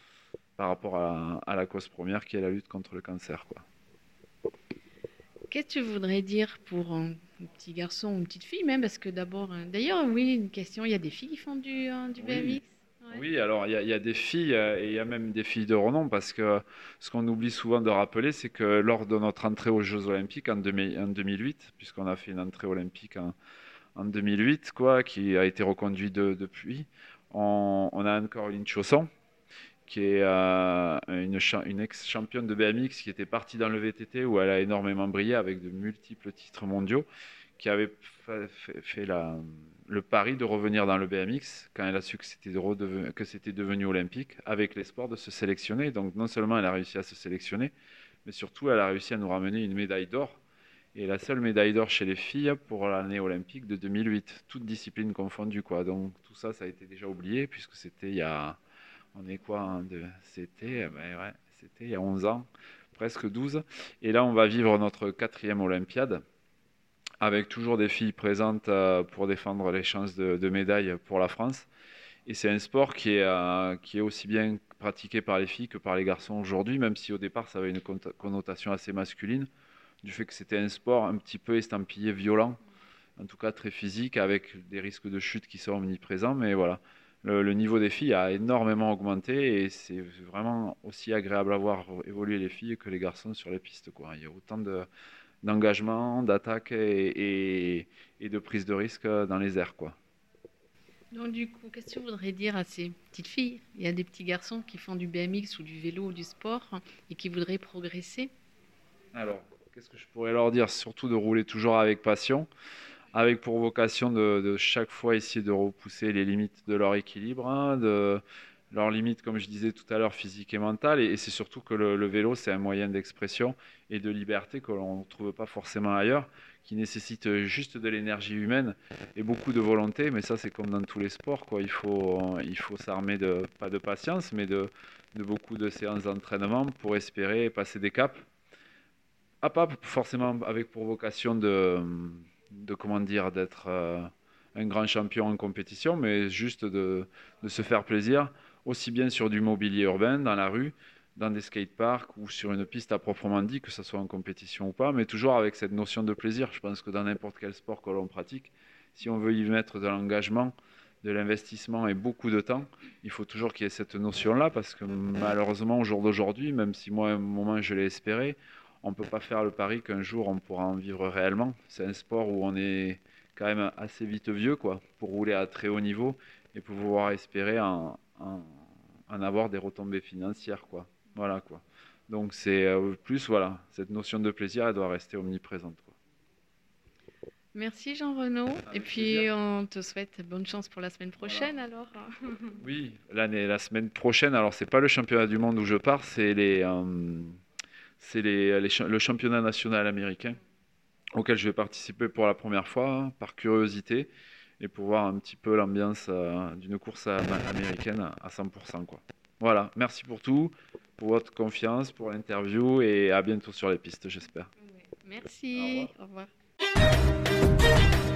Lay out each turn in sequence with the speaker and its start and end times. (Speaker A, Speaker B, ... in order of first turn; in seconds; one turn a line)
Speaker A: 0.6-3.6
Speaker B: 5.5-13.2
Speaker A: 12.2-12.6
Speaker A: 13.1-23.3
Speaker A: 24.0-29.1
Speaker A: 29.9-37.0
Speaker A: 37.6-47.7
Speaker A: 48.2-50.4
Speaker A: 51.0-58.6
Speaker A: 59.1-66.2
Speaker A: 67.2-71.7
Speaker A: 72.3-79.5
Speaker A: 80.0-82.6
Speaker A: 83.2-94.9
Speaker A: 95.4-100.0
Speaker B: 101.1-108.3
Speaker A: 109.1-112.5
Speaker A: 113.1-118.2
Speaker A: 118.7-138.2
Speaker A: 139.4-185.9
Speaker B: 187.6-192.6
Speaker A: 188.7-189.3
Speaker A: 191.2-191.5
Speaker A: 192.6-197.4
Speaker A: 198.0-200.4
Speaker A: 201.2-214.5
Speaker B: 214.7-216.3
Speaker A: 215.5-215.9